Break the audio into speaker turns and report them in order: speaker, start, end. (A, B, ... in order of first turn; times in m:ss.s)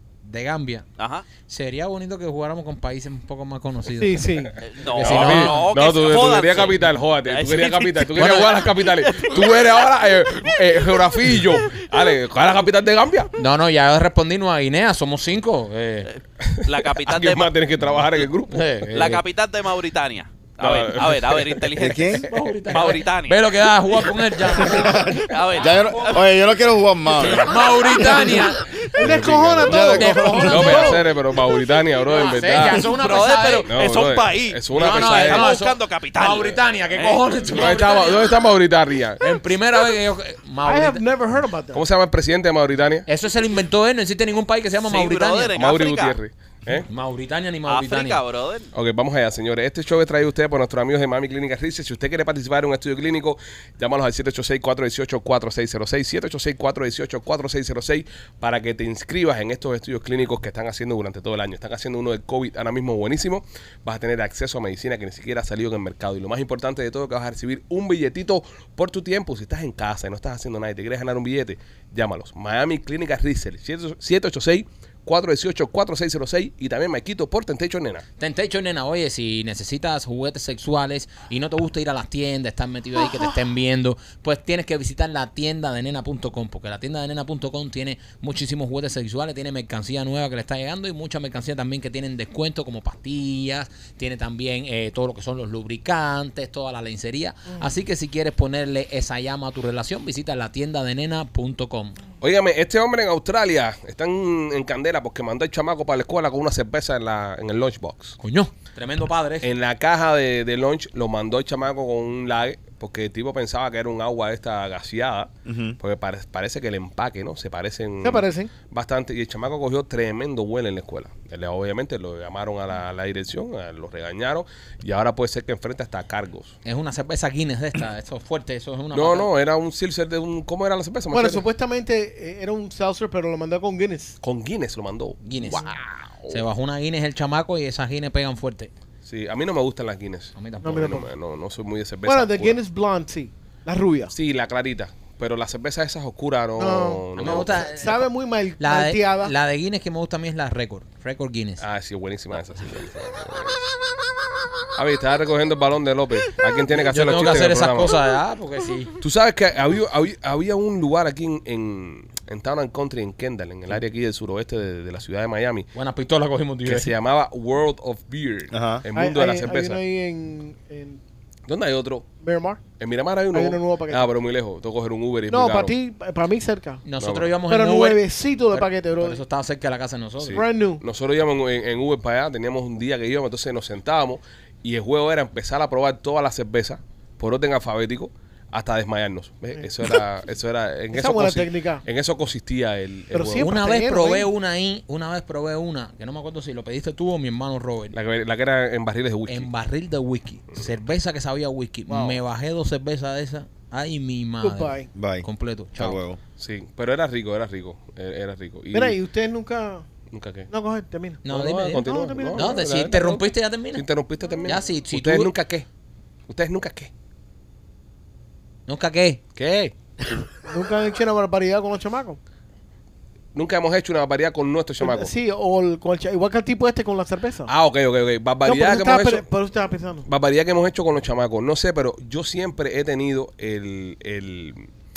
0:00.2-0:00.8 A
0:01.0-0:01.3 B
0:01.5-0:04.3 A
0:04.0-0:04.6 C
0:04.6-0:09.8 B
0:04.8-0:05.7 A
0:05.0-0:13.3 D
0:08.1-0:08.5 A
0:13.4-0:16.1 A
0:16.0-0:17.5 B
0:16.4-0:19.2 D
0:18.5-0:19.2 A
0:18.9-0:23.5 B
0:20.6-0:21.7 D
0:21.8-0:22.3 E
0:22.2-0:25.2 A
0:24.6-0:27.7 E
0:25.3-0:26.3 B
0:27.2-0:28.6 A
0:28.9-0:31.0 C
0:29.0-0:32.9 D
0:29.6-0:30.9 E
0:29.7-0:31.0 A
0:32.0-0:33.7 A
0:32.7-0:37.2 B
0:33.6-0:35.5 D
0:34.7-0:38.3 A
0:37.5-0:39.2 D
0:39.2-0:41.0 A
0:40.6-0:41.8 C
0:41.7-0:43.1 D
0:43.1-0:45.6 A
0:44.8-0:46.2 B
0:45.6-0:46.9 D
0:46.8-0:48.2 A
0:47.6-0:48.7 B
0:48.7-1:18.0 D
1:18.2-1:42.0 A
1:42.2-1:48.2 D
1:48.2-1:49.5 A
1:49.4-2:06.6 D
1:55.4-1:55.8 E
1:58.0-1:58.5 C
2:06.6-2:09.3 A
2:08.9-2:11.4 D
2:11.1-2:14.2 C
2:14.2-2:16.4 D
2:15.2-2:15.8 A
2:16.3-2:18.7 A
2:19.0-2:22.6 D
2:20.4-2:21.0 A
2:20.6-2:21.1 C
2:22.0-2:24.1 C
2:24.1-2:27.6 D
2:26.6-2:29.3 C
2:27.2-2:28.0 A
2:28.6-2:31.6 A
2:31.6-2:33.6 D
2:34.7-2:37.9 D
2:36.7-2:38.9 A
2:39.0-2:45.7 D
2:45.7-2:46.9 A
2:46.6-2:49.8 D
2:48.5-2:48.8 E
2:48.9-2:51.0 C
2:51.5-2:52.0 D
2:52.2-2:52.6 C
2:52.8-2:55.7 D
2:53.3-2:54.1 C
2:55.3-2:56.8 C
2:56.8-3:00.4 A
2:57.0-2:57.3 D
2:57.5-2:59.2 C
3:00.2-3:13.5 D
3:00.3-3:00.8 C
3:10.9-3:11.8 C
3:13.1-3:14.3 C
3:13.4-3:17.9 A
3:17.9-3:19.5 D
3:19.3-3:26.0 A
3:21.9-3:22.2 C
3:24.4-3:24.9 C
3:24.9-3:26.2 E
3:26.4-3:29.0 D
3:28.7-3:29.8 C
3:30.1-3:30.5 D
3:30.5-3:31.2 C
3:31.2-3:33.8 A
3:31.3-3:33.2 D
3:31.8-3:32.6 C
3:33.7-3:35.7 D
3:34.4-3:35.3 A
3:36.3-3:36.9 D
3:38.7-3:39.7 A
3:40.4-3:42.2 C
3:43.3-3:45.1 D
3:44.8-3:47.5 C
3:47.5-3:49.2 D
3:48.4-3:50.0 C
3:50.0-3:54.7 D